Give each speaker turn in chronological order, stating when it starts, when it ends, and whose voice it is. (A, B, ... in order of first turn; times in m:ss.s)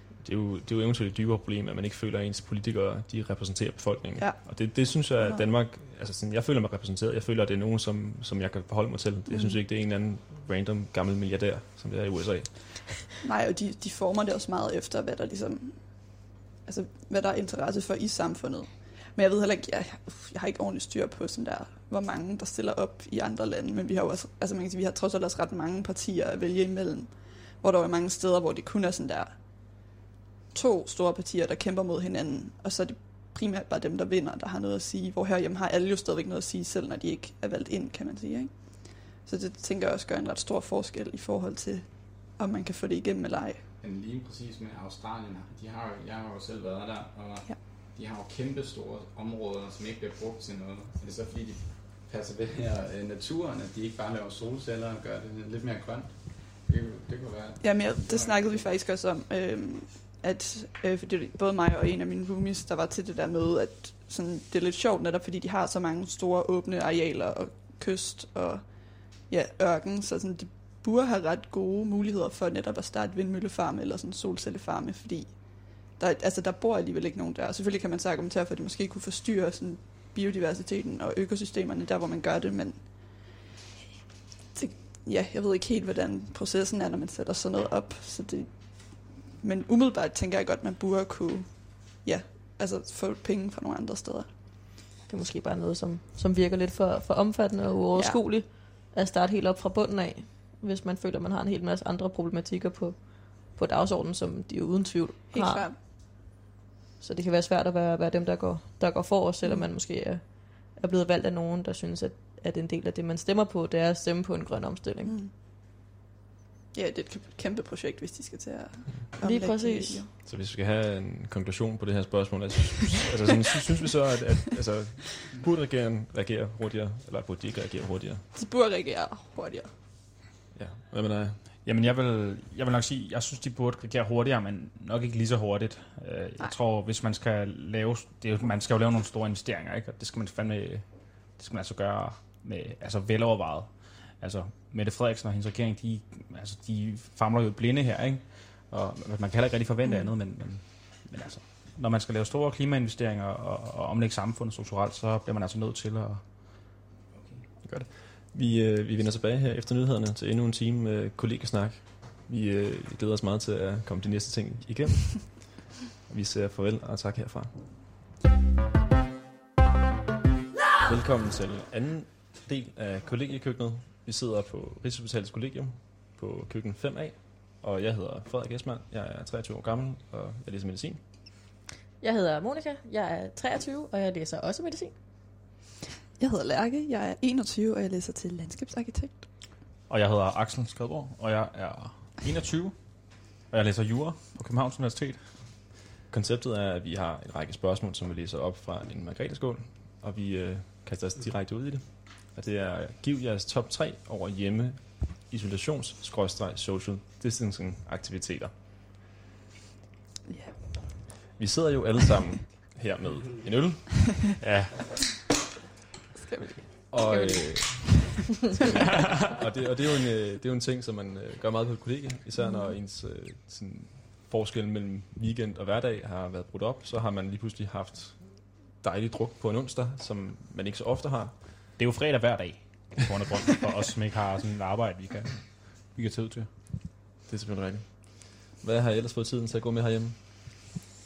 0:00.2-0:13.0 A
0:04.2-0:05.4 B
0:09.3-0:09.5 B
0:13.2-0:29.9 B
0:30.5-0:43.6 B
0:43.8-0:58.7 C
0:57.6-1:23.4 B
1:24.5-1:34.4 B
1:35.1-1:46.0 D
1:37.9-1:38.2 B
1:45.3-1:45.8 B
1:47.0-1:55.1 D
1:49.4-1:49.7 B
1:55.0-1:55.3 B
1:56.7-2:00.1 B
1:59.2-2:00.0 D
2:00.2-2:08.2 A
2:08.3-2:09.7 B
2:10.5-2:11.4 A
2:11.6-2:36.6 E
2:37.1-2:37.5 C
2:37.6-2:47.9 A
2:50.8-3:01.0 A
3:02.0-3:04.9 D
3:06.2-3:09.3 B
3:09.9-3:15.3 E
3:16.1-3:28.5 A
3:30.3-3:31.3 B
3:31.3-3:34.2 A
3:34.4-3:35.0 E
3:36.1-3:37.3 B
3:36.9-3:51.4 A
3:37.0-3:37.8 D
3:42.4-3:42.7 B
3:51.8-3:56.5 E
3:57.2-4:00.5 A